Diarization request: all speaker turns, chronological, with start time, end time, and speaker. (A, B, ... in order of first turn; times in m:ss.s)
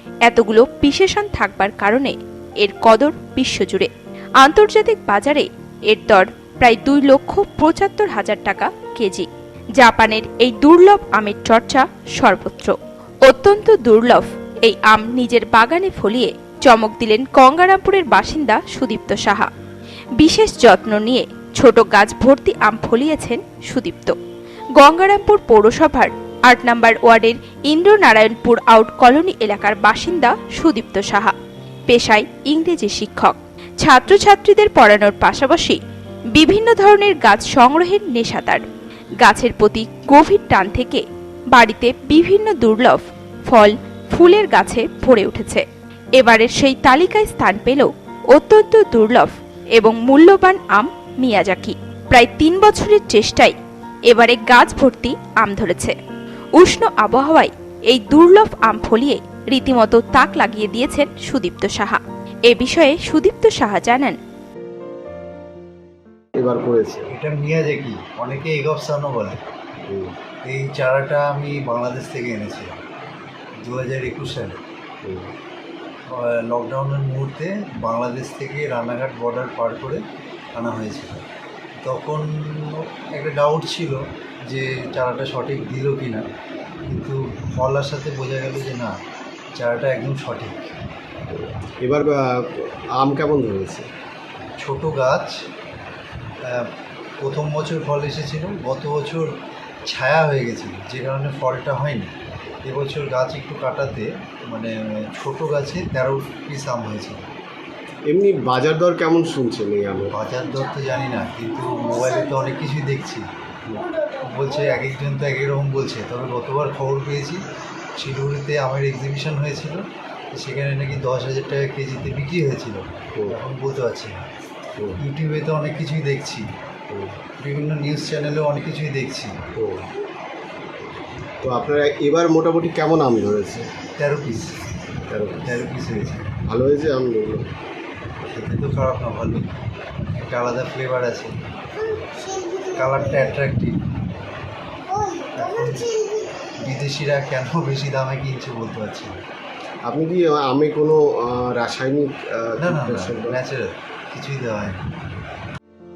0:00.3-0:03.9 A
0:04.4-0:19.5 A
0:20.2-0:24.2 A
0:24.8-0:31.4 A
0:31.9-0:35.8 A
0:36.4-0:38.7 A
0:39.2-0:45.6 A
0:46.2-0:53.6 A
0:54.1-0:56.0 A
0:56.6-1:04.2 A
1:06.4-1:07.1 B
1:07.1-1:09.4 C
1:09.9-1:10.2 B
1:10.5-1:12.7 C
1:13.6-1:14.6 C
1:15.0-1:15.3 B
1:16.1-1:20.0 C
1:20.6-1:21.2 C
1:21.8-1:26.3 C
1:26.9-1:28.9 C
1:29.6-1:30.7 C
1:31.3-1:33.9 B
1:34.6-1:35.4 C
1:36.4-1:39.3 C
1:39.9-1:42.1 C
1:42.7-1:47.2 C
1:48.1-1:50.2 B
1:50.1-1:53.3 C
1:53.7-1:54.0 B
1:54.1-1:57.4 C
1:58.0-1:59.8 C
2:00.3-2:04.2 C
2:04.8-2:05.0 B
2:05.0-2:06.5 C
2:06.9-2:07.2 B
2:07.3-2:09.4 C
2:09.6-2:09.9 B
2:11.4-2:13.7 B
2:14.0-2:14.5 C
2:15.1-2:15.5 B
2:15.4-2:16.4 C
2:16.4-2:17.5 B
2:18.2-2:19.5 C
2:20.2-2:21.3 C
2:22.7-2:23.8 C
2:25.4-2:29.1 C
2:29.9-2:33.4 B
2:32.6-2:34.8 C